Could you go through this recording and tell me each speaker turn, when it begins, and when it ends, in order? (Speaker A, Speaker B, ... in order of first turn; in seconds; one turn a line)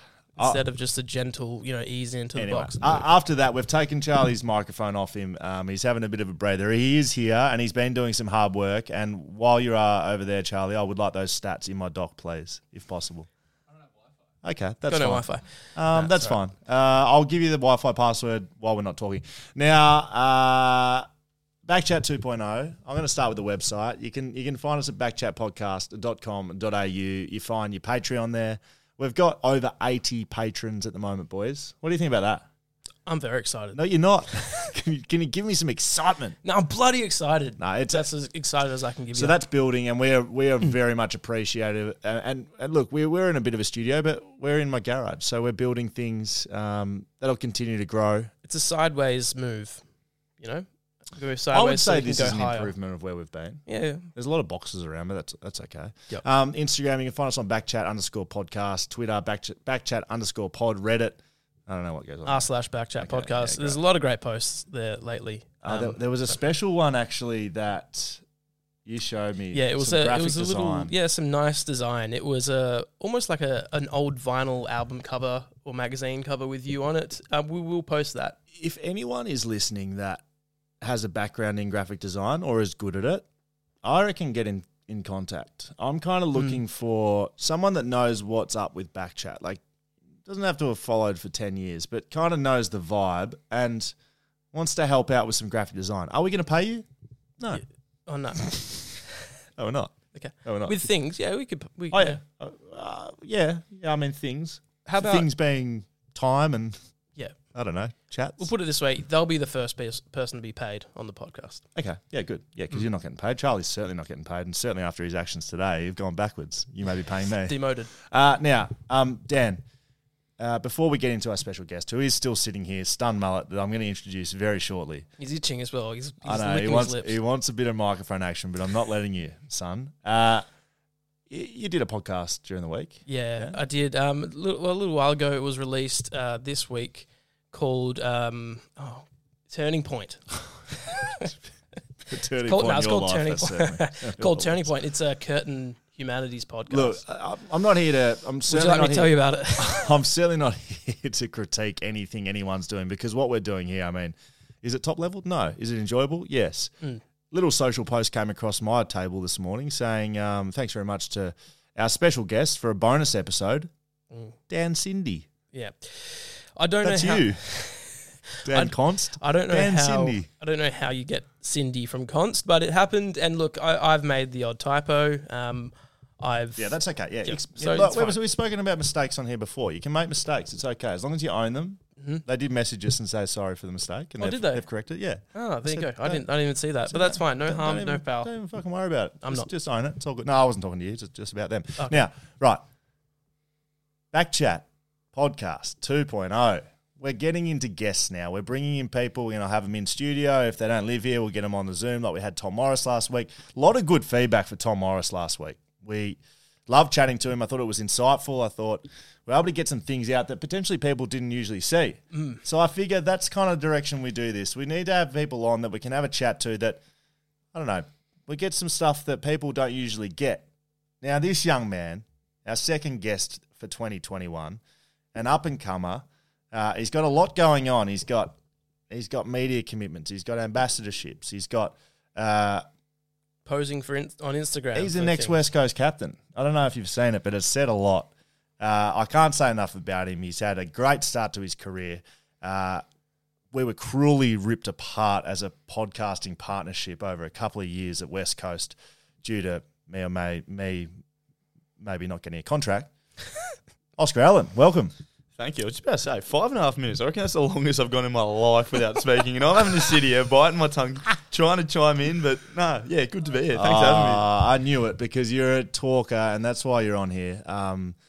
Speaker A: 0.4-3.1
Speaker B: 2.4-13.3
Speaker B: 14.4-21.1
Speaker A: 14.9-16.3
Speaker B: 21.6-32.5
Speaker A: 33.0-33.8
Speaker B: 33.7-36.4
Speaker A: 36.4-39.4
Speaker B: 37.6-38.1
Speaker B: 39.1-48.3
Speaker A: 48.4-49.8
Speaker A: 50.4-52.7
Speaker B: 51.5-62.5
Speaker A: 53.7-54.1
Speaker A: 62.2-66.0
Speaker B: 63.0-63.8
Speaker B: 65.6-68.2
Speaker B: 68.8-70.9
Speaker A: 69.5-78.4
Speaker B: 78.5-80.2
Speaker B: 80.8-83.2
Speaker B: 83.8-89.6
Speaker B: 90.2-93.9
Speaker B: 94.5-96.8
Speaker A: 97.5-98.5
Speaker B: 98.4-98.7
Speaker B: 99.6-100.8
Speaker A: 100.1-102.2
Speaker B: 101.9-106.8
Speaker A: 104.8-105.3
Speaker B: 107.5-108.5
Speaker A: 108.4-111.6
Speaker B: 111.7-119.6
Speaker A: 117.4-117.9
Speaker B: 120.4-125.1
Speaker A: 125.2-127.2
Speaker B: 126.2-130.4
Speaker B: 131.3-133.6
Speaker A: 133.1-141.3
Speaker B: 142.1-144.7
Speaker A: 142.4-147.0
Speaker B: 146.7-156.7
Speaker A: 148.5-149.9
Speaker B: 157.3-163.7
Speaker B: 164.5-165.3
Speaker A: 165.5-178.2
Speaker B: 166.8-167.4
Speaker B: 168.4-170.3
Speaker B: 176.6-186.2
Speaker A: 182.0-182.2
Speaker A: 184.2-184.6
Speaker A: 185.3-188.3
Speaker B: 186.8-192.6
Speaker A: 189.2-189.5
Speaker B: 194.1-216.8
Speaker A: 212.1-212.4
Speaker B: 217.5-220.4
Speaker B: 221.0-224.6
Speaker B: 225.1-228.3
Speaker B: 228.9-232.6
Speaker A: 233.4-235.4
Speaker B: 234.7-242.8
Speaker B: 243.5-250.9
Speaker B: 251.8-252.9
Speaker B: 254.0-254.9
Speaker C: 255.4-264.2
Speaker B: 263.5-267.9